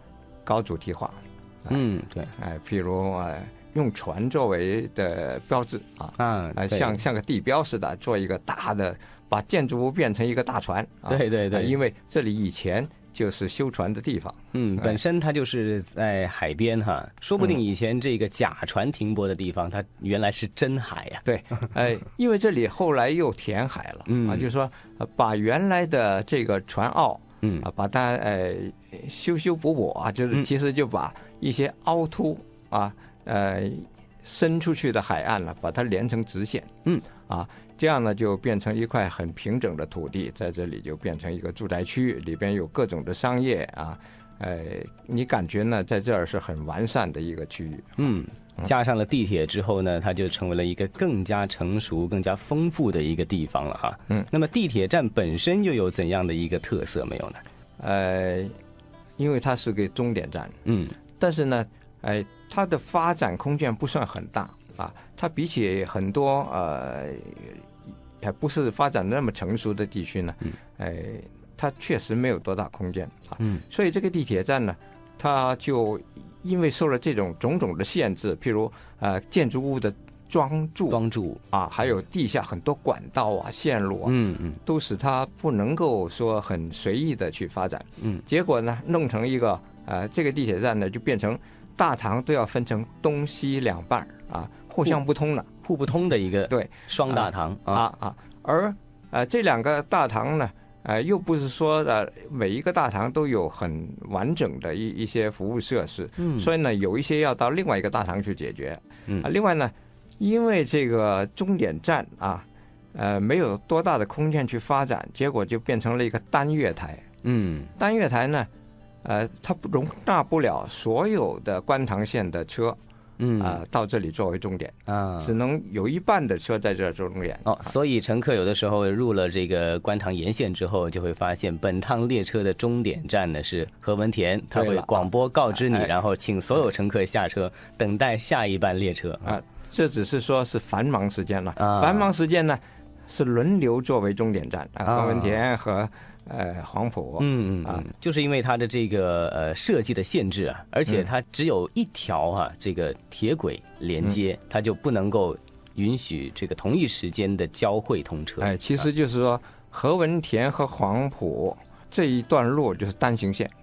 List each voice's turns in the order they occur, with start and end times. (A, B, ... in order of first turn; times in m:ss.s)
0:00.4-0:01.8 A
0:01.7-0:02.3 B
0:02.4-0:15.0 A
0:06.2-0:07.0 B
0:11.1-0:11.8 B
0:14.5-0:21.2 B
0:21.2-0:36.7 A
0:24.1-0:24.5 B
0:27.4-0:27.7 B
0:37.2-0:48.7 A
0:48.0-0:57.4 B
0:57.8-0:58.5 A
0:59.2-1:00.6 A
1:00.6-1:00.9 B
1:01.2-1:07.6 A
1:08.2-1:35.5 A
1:20.9-1:21.4 B
1:24.0-1:24.6 B
1:35.6-1:37.8 B
1:36.5-1:57.0 A
1:46.2-1:46.5 B
1:57.2-1:57.7 B
1:57.8-1:58.5 A
1:59.0-2:02.8 A
2:03.2-2:03.6 B
2:03.4-2:07.8 A
2:04.8-2:05.3 B
2:07.4-2:19.4 B
2:14.5-2:15.9 A
2:19.2-2:27.9 A
2:21.6-2:22.1 B
2:24.9-2:25.4 B
2:27.2-2:38.8 B
2:38.4-2:43.5 A